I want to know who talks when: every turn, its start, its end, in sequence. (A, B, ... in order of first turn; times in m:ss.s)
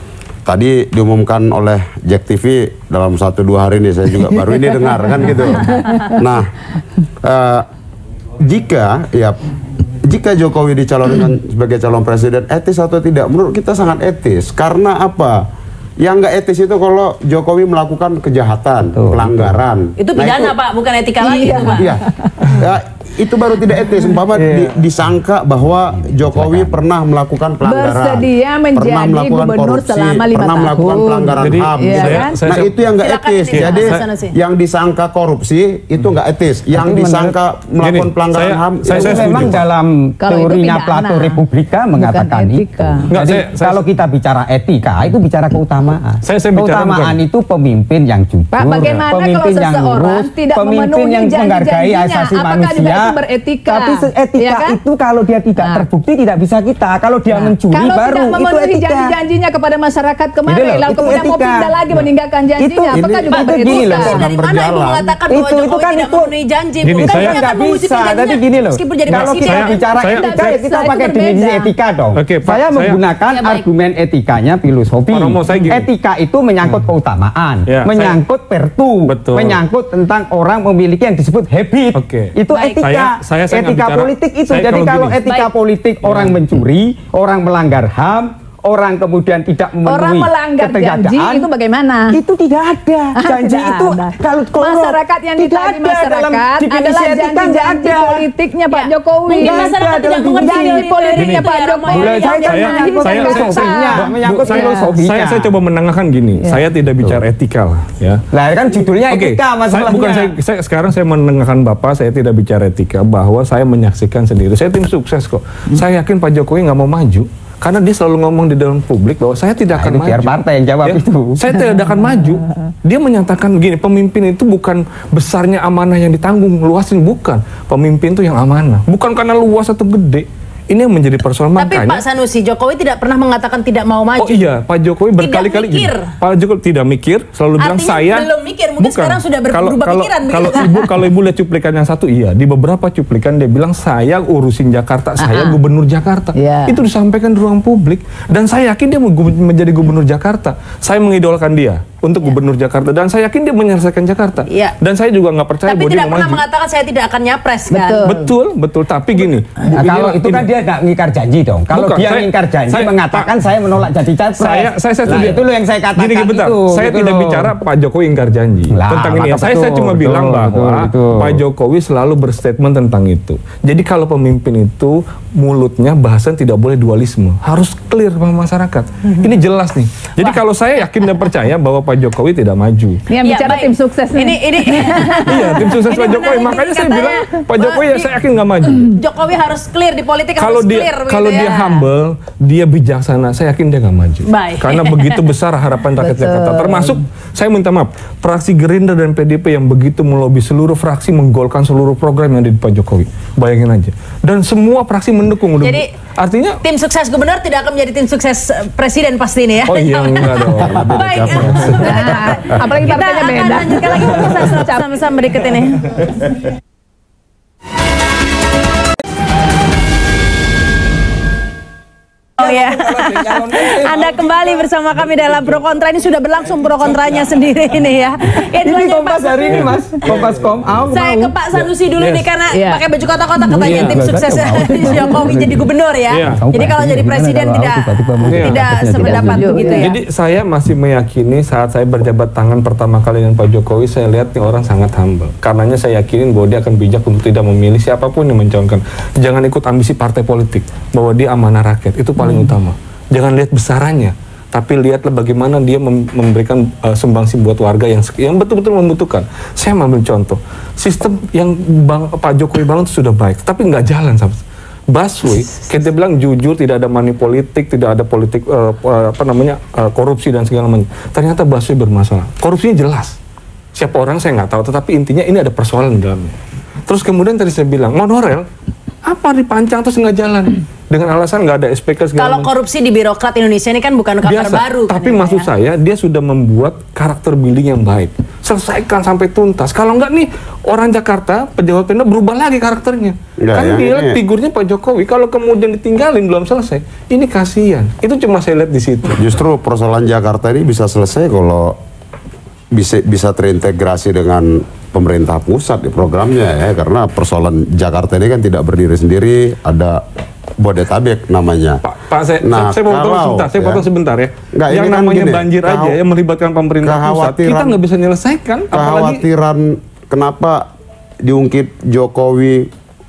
0:00.4-0:06.5 A
0:05.7-0:06.2 B
0:07.2-0:07.7 A
0:08.4-0:09.4 A
0:10.0-0:15.4 A
0:16.0-0:20.5 A
0:18.9-0:19.6 C
0:20.0-0:21.9 D
0:21.2-0:22.5 B
0:21.8-0:39.6 A
0:24.3-0:24.9 C
0:25.9-0:26.9 C
0:27.6-0:32.4 B
0:31.4-0:32.8 E
0:33.0-0:34.4 D
0:33.5-0:34.0 E
0:36.7-0:37.4 C
0:37.8-0:39.6 E
0:38.9-0:53.1 C
0:40.2-0:41.4 B
0:42.0-0:43.1 B
0:43.1-0:43.8 E
0:46.2-0:47.2 E
0:48.5-0:54.8 B
0:53.7-0:59.1 C
0:55.6-0:55.8 B
0:57.3-1:04.1 B
1:00.5-1:01.8 C
1:02.6-1:04.2 C
1:02.9-1:05.1 A
1:03.7-1:09.7 D
1:05.3-1:06.3 C
1:06.8-1:07.4 E
1:07.0-1:31.5 C
1:09.1-1:10.4 E
1:09.9-1:11.7 B
1:12.1-1:13.0 E
1:13.3-1:13.6 D
1:15.1-1:15.9 E
1:17.7-1:18.2 E
1:19.1-1:19.6 E
1:21.9-1:25.2 E
1:22.5-1:22.8 D
1:25.2-1:25.5 D
1:26.0-1:26.4 E
1:29.8-1:32.2 B
1:32.1-1:38.2 C
1:33.2-1:39.7 B
1:38.7-1:42.7 D
1:39.4-1:40.8 C
1:40.4-1:44.8 B
1:41.2-1:41.5 E
1:41.9-1:45.5 C
1:42.5-1:48.2 E
1:48.3-1:50.3 C
1:49.0-2:12.0 E
1:59.7-2:01.5 C
2:11.6-2:14.5 D
2:14.2-2:18.3 E
2:15.2-2:16.1 D
2:17.6-2:20.7 D
2:18.8-2:36.4 E
2:25.2-2:25.6 B
2:26.3-2:26.8 B
2:34.5-2:34.7 D
2:35.6-2:38.1 D
2:37.7-2:38.3 B
2:38.0-2:40.5 E
2:39.7-2:47.5 C
2:41.7-2:43.3 E
2:44.4-3:03.0 E
2:48.7-2:51.4 C
3:03.1-3:05.8 B
3:03.2-3:08.1 D
3:05.2-3:09.0 E
3:08.8-3:11.8 D
3:10.4-3:26.6 E
3:14.3-3:15.2 D
3:16.0-3:17.0 B
3:25.6-3:25.9 D
3:26.6-3:35.9 D
3:29.6-3:32.4 E
3:30.6-3:31.9 A
3:31.8-3:34.9 B
3:42.4-3:44.3 C
3:42.4-3:49.7 D
3:48.5-3:51.3 C
3:49.5-3:50.9 E
3:50.9-4:00.0 D
3:52.0-3:52.3 E
3:52.5-3:52.8 B
3:53.5-3:55.6 C
3:53.6-3:54.0 E
3:56.1-3:56.4 E
3:56.4-3:59.6 C
3:58.2-3:58.6 E
3:59.0-3:59.9 B
3:59.7-4:33.2 E
4:33.7-4:36.3 E
4:36.9-4:38.5 E
4:39.0-4:42.5 E
4:42.2-4:45.5 D
4:44.2-4:59.3 E
4:53.4-4:54.2 A
4:59.2-5:01.8 A
5:02.7-5:10.0 A
5:10.6-5:11.8 A
5:11.8-5:19.2 E
5:12.4-5:13.8 A
5:14.5-5:16.0 A
5:16.8-5:17.7 A
5:18.7-5:20.6 A
5:21.2-5:22.7 A